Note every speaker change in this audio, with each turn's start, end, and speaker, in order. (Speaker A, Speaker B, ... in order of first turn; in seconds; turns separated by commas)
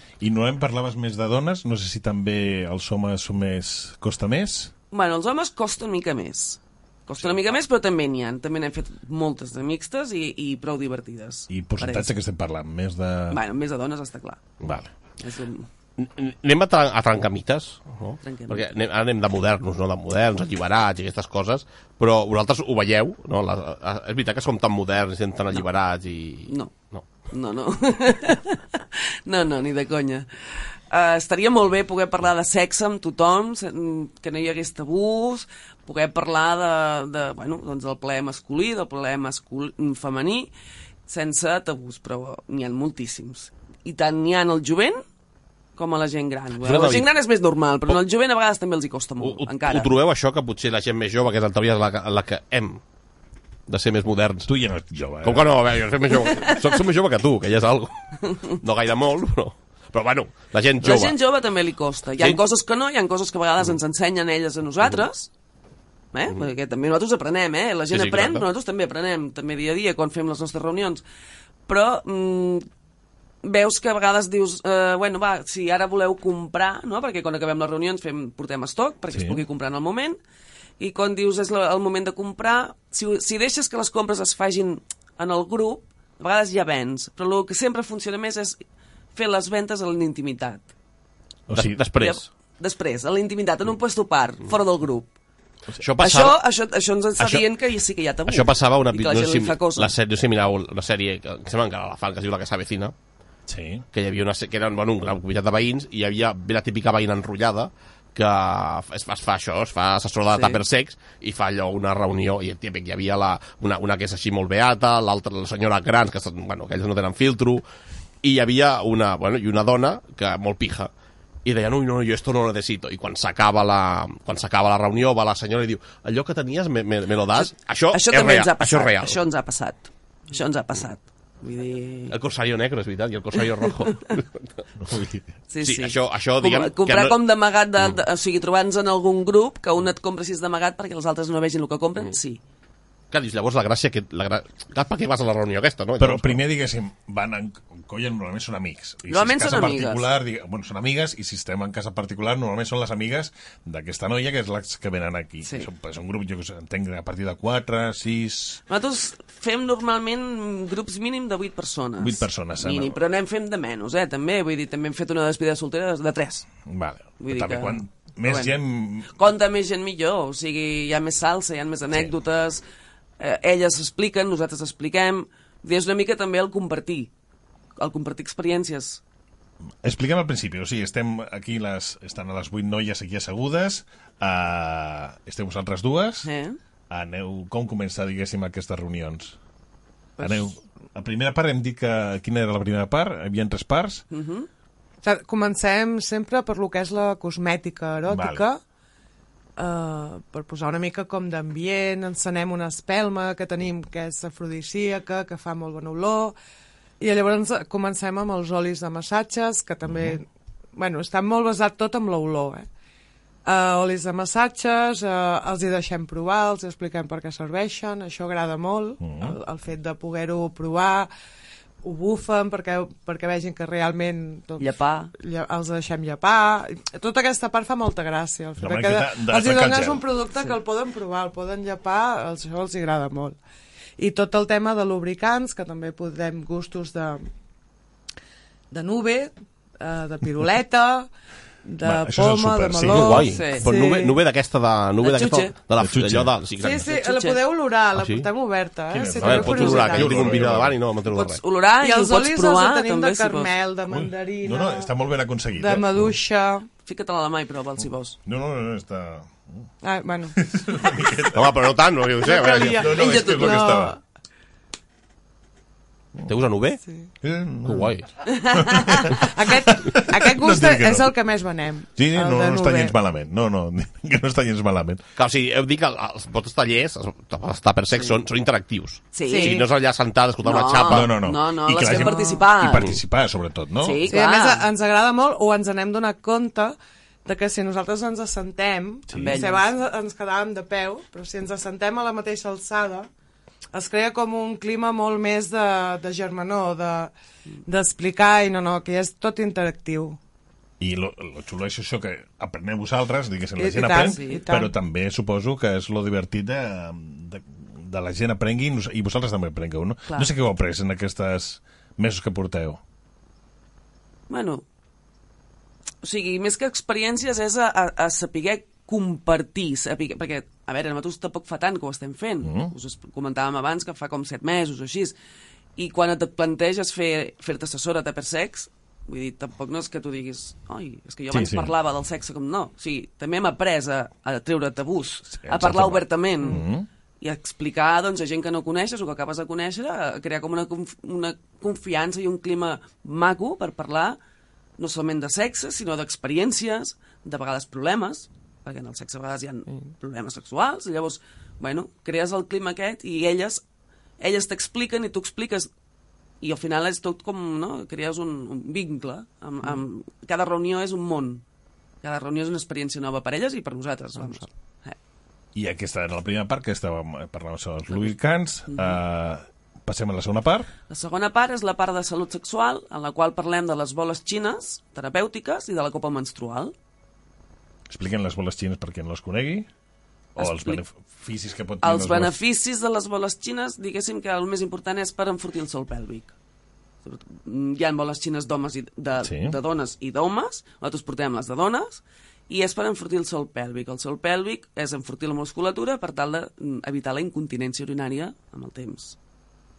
Speaker A: 0.2-4.7, Speaker B: 4.9-12.1, Speaker A: 11.5-13.4, Speaker B: 13.3-14.5, Speaker A: 14.6-14.9, Speaker B: 15.2-15.7, Speaker C: 16.0-27.1, Speaker B: 18.2-18.7, Speaker B: 26.5-26.7, Speaker B: 27.3-40.5, Speaker B: 41.1-45.0, Speaker B: 45.8-49.9, Speaker C: 46.6-47.1, Speaker C: 49.2-52.8, Speaker C: 53.7-54.5, Speaker A: 54.5-55.6, Speaker C: 55.2-58.0, Speaker B: 56.1-56.8, Speaker B: 58.3-58.6, Speaker C: 58.6-61.2, Speaker B: 60.8-65.3, Speaker B: 66.1-71.0, Speaker C: 67.9-68.5, Speaker B: 71.7-72.7, Speaker B: 73.4-80.2, Speaker A: 79.1-79.4, Speaker B: 80.8-88.6, Speaker B: 89.1-90.7, Speaker A: 91.5-91.8, Speaker C: 91.5-92.2, Speaker B: 92.0-95.1, Speaker C: 95.8-96.4, Speaker B: 96.0-99.9, Speaker C: 97.2-97.5, Speaker C: 98.3-102.9, Speaker A: 103.5-103.8, Speaker C: 103.9-117.6, Speaker B: 110.3-110.6, Speaker C: 118.2-120.9, Speaker C: 121.5-129.2, Speaker B: 127.3-132.2, Speaker C: 132.1-134.5, Speaker A: 134.8-135.2, Speaker B: 135.5-142.4, Speaker C: 135.6-137.2, Speaker C: 143.1-146.4, Speaker A: 146.0-158.6, Speaker B: 149.1-150.1, Speaker B: 155.4-155.7, Speaker B: 158.7-166.5, Speaker A: 162.0-163.0, Speaker A: 166.7-169.1, Speaker B: 167.2-172.6, Speaker B: 173.2-177.1, Speaker B: 177.8-179.0, Speaker A: 179.8-186.3, Speaker B: 186.2-186.6, Speaker A: 186.9-189.4, Speaker B: 190.2-190.5, Speaker A: 190.2-194.0, Speaker B: 194.1-194.5, Speaker D: 195.0-198.6, Speaker A: 198.1-198.4, Speaker D: 199.6-206.4, Speaker D: 207.0-210.2, Speaker A: 209.8-210.2, Speaker D: 210.8-212.7, Speaker D: 213.4-221.1, Speaker A: 219.0-219.4, Speaker D: 221.8-233.4, Speaker B: 224.6-225.1, Speaker A: 228.6-230.1, Speaker D: 234.0-237.2, Speaker D: 238.7-241.1, Speaker D: 241.7-244.1, Speaker A: 241.8-243.4, Speaker C: 242.9-246.8, Speaker B: 243.2-243.7, Speaker B: 245.0-245.6, Speaker A: 245.8-246.4, Speaker D: 246.6-250.3, Speaker B: 246.8-247.4, Speaker C: 248.0-248.3, Speaker A: 248.9-250.8, Speaker C: 249.2-251.4, Speaker B: 251.1-253.5, Speaker D: 251.8-254.9, Speaker A: 253.9-256.2, Speaker D: 255.6-256.7, Speaker B: 256.8-258.2, Speaker A: 258.2-259.7, Speaker D: 259.8-260.4, Speaker A: 260.4-261.6, Speaker C: 261.3-262.9, Speaker D: 262.2-264.0, Speaker A: 262.4-264.0, Speaker B: 263.0-263.7, Speaker C: 266.3-266.8, Speaker A: 267.2-267.9, Speaker C: 267.7-268.1, Speaker B: 268.3-269.3, Speaker A: 268.6-271.1, Speaker D: 269.4-272.9, Speaker A: 271.9-275.0, Speaker C: 275.2-281.1, Speaker B: 277.9-278.2, Speaker B: 279.1-279.6, Speaker D: 279.3-279.6, Speaker B: 280.4-283.0, Speaker A: 280.9-284.1, Speaker D: 281.9-282.4, Speaker B: 283.8-284.7, Speaker D: 284.1-293.1, Speaker A: 289.1-289.5, Speaker B: 289.1-289.7, Speaker D: 293.7-297.1, Speaker D: 297.7-300.2, Speaker A: 300.8-312.8, Speaker D: 303.6-304.7, Speaker B: 304.0-304.4, Speaker B: 310.1-310.3, Speaker B: 314.3-314.6, Speaker B: 316.0-325.2, Speaker A: 322.4-322.7, Speaker B: 325.8-336.6, Speaker A: 331.3-331.7, Speaker A: 335.3-336.9, Speaker B: 337.2-344.2, Speaker B: 344.8-353.6, Speaker B: 354.2-355.7, Speaker B: 356.4-361.4, Speaker B: 362.0-365.0, Speaker A: 365.6-370.7, Speaker B: 367.9-368.2, Speaker B: 368.7-369.0, Speaker B: 370.9-376.7, Speaker A: 377.9-379.7, Speaker A: 380.4-382.4, Speaker B: 380.4-380.8, Speaker B: 381.8-386.3, Speaker B: 387.0-399.2, Speaker A: 389.2-389.6